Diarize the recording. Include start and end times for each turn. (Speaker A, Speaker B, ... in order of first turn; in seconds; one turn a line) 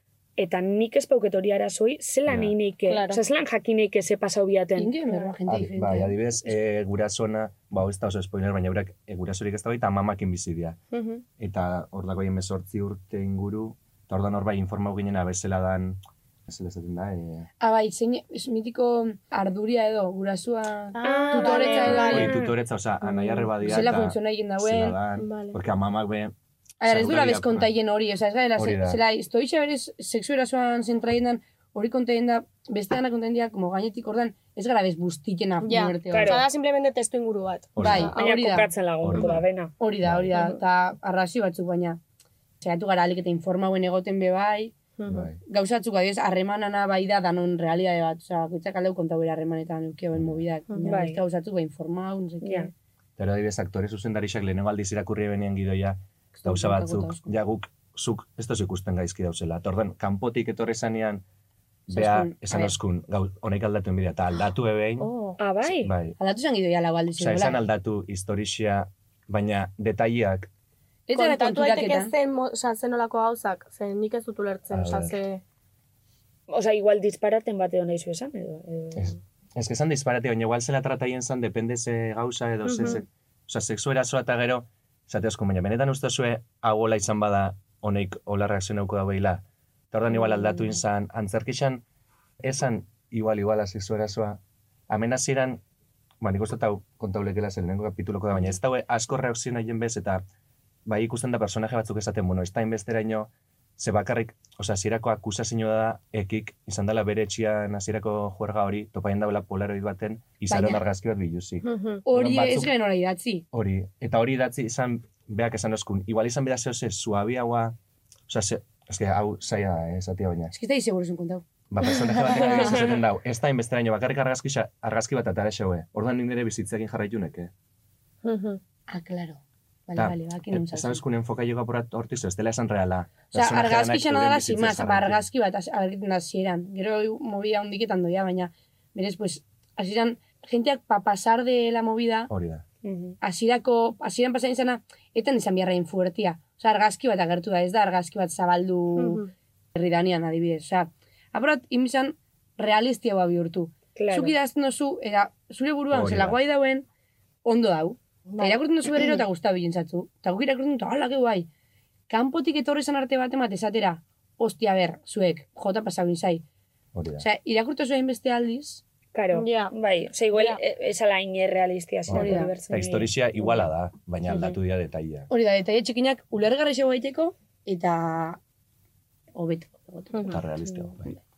Speaker A: 0.4-4.9
Speaker B: 2.3-2.6
Speaker C: 2.9-3.2
Speaker D: 4.8-6.2
Speaker B: 5.5-10.8
Speaker C: 10.9-11.2
Speaker B: 11.4-17.5
Speaker D: 17.6-22.3
Speaker C: 20.9-22.3
Speaker A: 21.0-22.5
Speaker B: 21.8-27.7
Speaker C: 23.0-23.5
Speaker D: 23.6-25.0
Speaker C: 25.2-25.6
Speaker D: 26.8-36.4
Speaker B: 28.6-29.0
Speaker C: 35.6-38.6
Speaker A: 36.1-36.5
Speaker B: 37.8-38.1
Speaker D: 37.8-38.7
Speaker A: 38.1-39.7
Speaker B: 39.0-39.5
Speaker C: 39.1-39.4
Speaker D: 39.8-42.0
Speaker B: 40.0-40.4
Speaker D: 42.6-44.7
Speaker C: 45.0-45.3
Speaker B: 45.1-45.4
Speaker D: 45.5-52.7
Speaker B: 50.1-50.4
Speaker A: 50.8-51.2
Speaker A: 52.4-52.7
Speaker B: 53.2-61.2
Speaker D: 56.4-57.3
Speaker B: 61.9-65.1
Speaker D: 61.9-62.7
Speaker C: 65.0-65.4
Speaker A: 65.4-65.9
Speaker B: 65.6-66.2
Speaker D: 66.2-67.6
Speaker B: 67.2-70.5
Speaker D: 71.1-72.1
Speaker C: 71.1-75.4
Speaker B: 74.7-75.2
Speaker A: 76.5-79.2
Speaker B: 79.0-91.8
Speaker C: 82.7-83.0
Speaker B: 92.4-95.6
Speaker B: 96.2-100.2
Speaker B: 100.9-112.7
Speaker D: 110.5-110.8
Speaker C: 111.7-112.0
Speaker D: 112.0-113.5
Speaker B: 113.5-117.8
Speaker B: 118.3-120.5
Speaker D: 120.5-121.5
Speaker B: 121.7-127.5
Speaker C: 122.3-122.8
Speaker C: 128.2-128.6
Speaker D: 128.9-131.0
Speaker B: 130.0-135.2
Speaker D: 133.3-142.3
Speaker B: 142.3-142.6
Speaker A: 142.8-143.2
Speaker D: 143.2-156.9
Speaker C: 149.0-149.3
Speaker A: 154.0-154.3
Speaker B: 155.9-156.4
Speaker D: 157.4-161.5
Speaker C: 158.3-159.2
Speaker D: 162.1-166.4
Speaker B: 166.9-167.3
Speaker D: 167.2-168.8
Speaker A: 169.1-173.1
Speaker C: 169.3-169.8
Speaker C: 170.3-170.6
Speaker B: 172.1-175.3
Speaker D: 172.1-172.6
Speaker A: 174.3-174.6
Speaker D: 175.3-178.4
Speaker D: 179.3-180.4
Speaker C: 180.1-180.4
Speaker B: 180.3-181.2